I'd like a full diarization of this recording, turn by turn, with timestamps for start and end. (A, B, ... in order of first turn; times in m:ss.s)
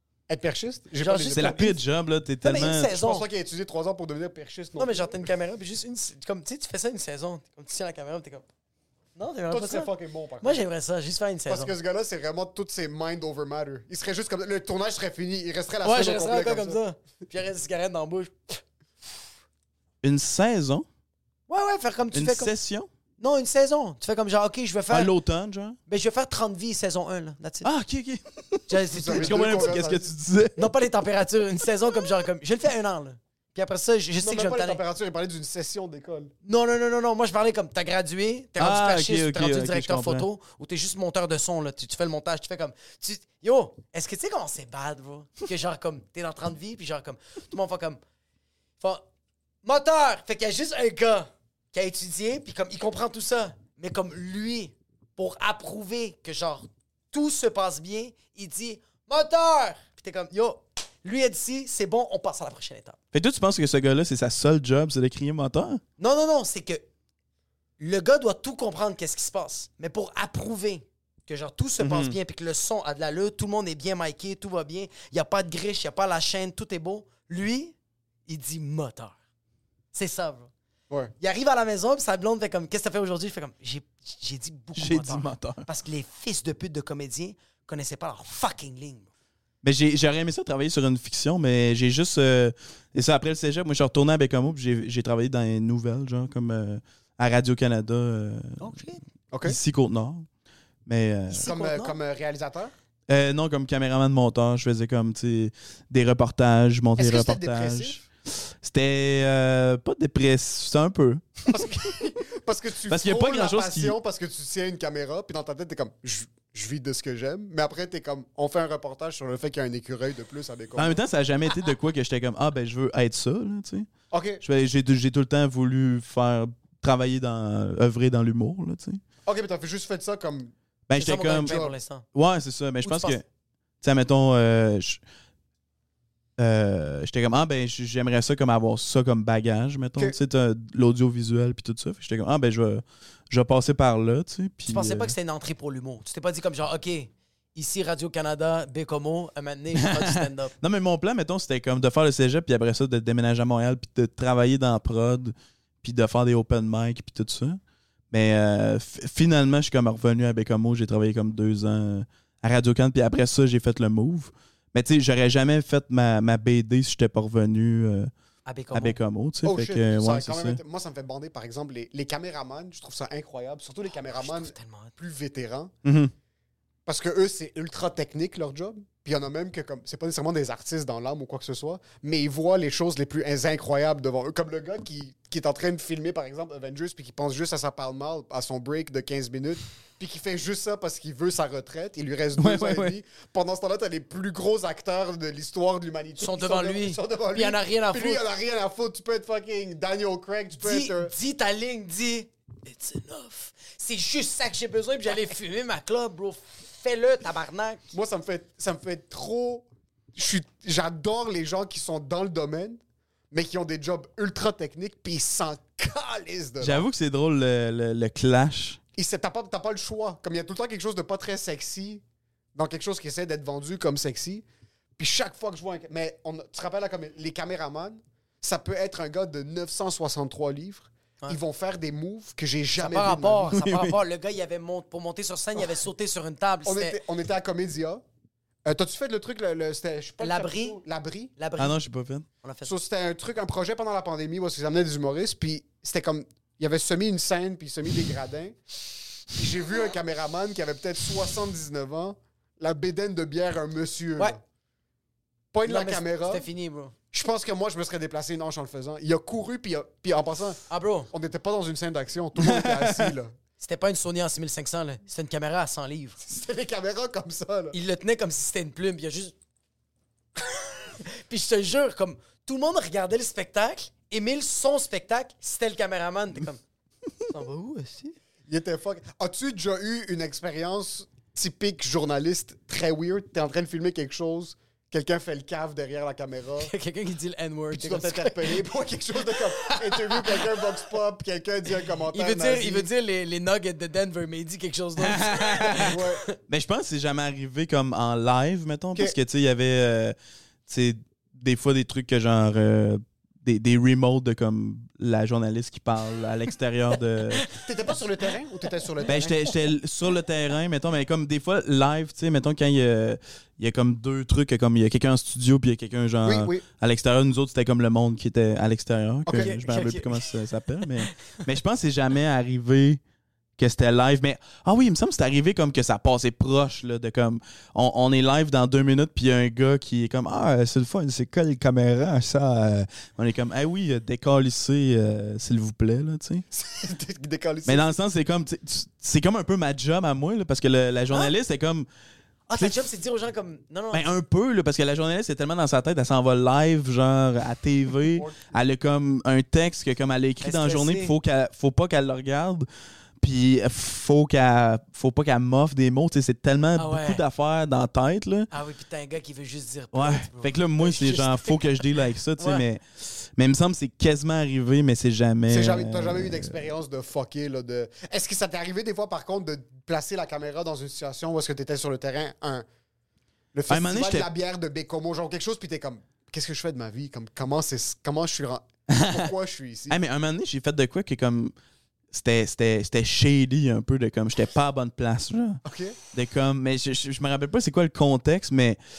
0:00.3-0:01.8 A
0:01.0-0:01.7 B
0:01.3-0:02.9 C
0:02.4-0:03.3 B
0:02.8-0:05.2 A
0:04.8-0:08.4 B
0:09.2-0:11.7 B
0:09.5-0:10.6 A
0:11.5-0:16.8 A
0:15.8-0:18.6 B
0:20.0-0:20.8 C
0:21.5-0:22.5 B
0:22.1-0:22.9 C
0:23.2-0:25.1 B
0:24.9-0:25.8 C
0:25.9-0:27.7 B
0:27.6-0:30.6 C
0:28.7-0:29.8 B
0:28.9-0:30.0 A
0:30.6-0:34.8 B
0:34.2-0:36.3 A
0:36.4-0:48.0 B
0:38.6-0:40.3 C
0:49.6-1:03.0 B
1:03.1-1:05.8 C
1:06.0-1:06.8 B
1:07.8-1:17.7 B
1:11.8-1:12.1 C
1:18.3-1:19.2 B
1:19.9-1:20.5 B
1:21.2-1:29.1 B
1:24.8-1:25.6 C
1:29.6-1:38.7 C
1:38.6-1:39.0 B
1:39.3-1:39.6 A
1:39.4-1:40.2 C
1:40.8-1:41.5 C
1:41.3-1:42.0 B
1:41.4-1:42.7 A
1:43.1-1:48.0 C
1:47.0-1:48.0 A
1:48.6-1:51.4 C
1:51.5-2:01.0 A
1:52.9-1:54.0 C
2:00.8-2:03.9 C
2:04.1-2:04.4 A
2:04.4-2:09.0 C
2:09.2-2:10.5 A
2:10.9-2:11.5 C
2:11.0-2:12.0 B
2:11.2-2:11.7 A
2:12.1-2:13.2 C
2:12.8-2:13.2 B
2:13.8-2:15.0 C
2:16.4-2:25.1 C
2:24.7-2:30.5 B
2:29.8-2:37.6 C
2:38.1-2:48.1 C
2:48.4-2:49.0 B
2:48.7-2:50.6 C
2:49.4-2:55.7 A
2:53.9-2:54.9 B
2:55.8-2:56.1 C
2:56.8-3:21.1 A
3:12.4-3:13.0 C
3:16.2-3:18.2 B
3:20.6-3:27.8 B
3:27.9-3:36.8 A
3:36.6-3:38.8 C
3:39.0-3:42.0 A
3:42.5-3:44.4 A
3:45.0-3:53.5 A
3:52.8-3:57.0 B
3:53.5-3:53.9 C
3:56.6-3:58.0 A
3:58.6-4:01.3 A
4:00.2-4:00.8 B
4:01.4-4:01.8 B
4:01.6-4:02.2 C
4:02.4-4:02.7 B
4:02.6-4:08.5 A
4:09.3-4:14.4 A
4:15.5-4:16.4 A
4:15.6-4:16.9 B
4:17.1-4:20.6 A
4:20.7-4:21.1 B
4:21.1-4:23.3 A
4:22.4-4:23.1 C
4:23.6-4:26.2 B
4:26.2-4:27.8 A
4:27.7-4:29.3 B
4:30.5-4:36.6 B
4:37.3-4:38.1 B
4:38.5-4:46.7 A
4:46.6-4:48.6 B
4:47.7-4:52.9 A
4:49.3-4:50.5 B
4:52.1-4:56.3 B
4:55.0-4:55.9 C
4:55.7-4:56.2 A
4:56.5-5:00.2 C
5:00.7-5:07.4 C
5:07.6-5:09.3 A
5:09.1-5:23.0 C
5:16.2-5:16.6 A
5:19.3-5:19.5 A
5:19.3-5:20.2 B
5:23.6-5:36.4 C
5:36.5-5:37.8 A
5:37.6-5:41.9 C
5:42.5-5:44.1 B
5:43.9-5:52.6 C
5:48.2-5:48.5 A
5:50.4-5:51.1 B
5:53.2-5:58.5 C
5:56.8-5:57.2 B
5:58.5-6:01.8 B
5:59.9-6:06.6 C
6:02.4-6:02.6 B
6:05.5-6:12.6 A
6:13.5-6:20.0 A
6:13.7-6:14.3 C
6:18.9-6:19.3 C
6:19.9-6:21.5 C
6:22.1-6:25.6 C
6:25.6-6:26.0 A
6:26.1-6:28.8 C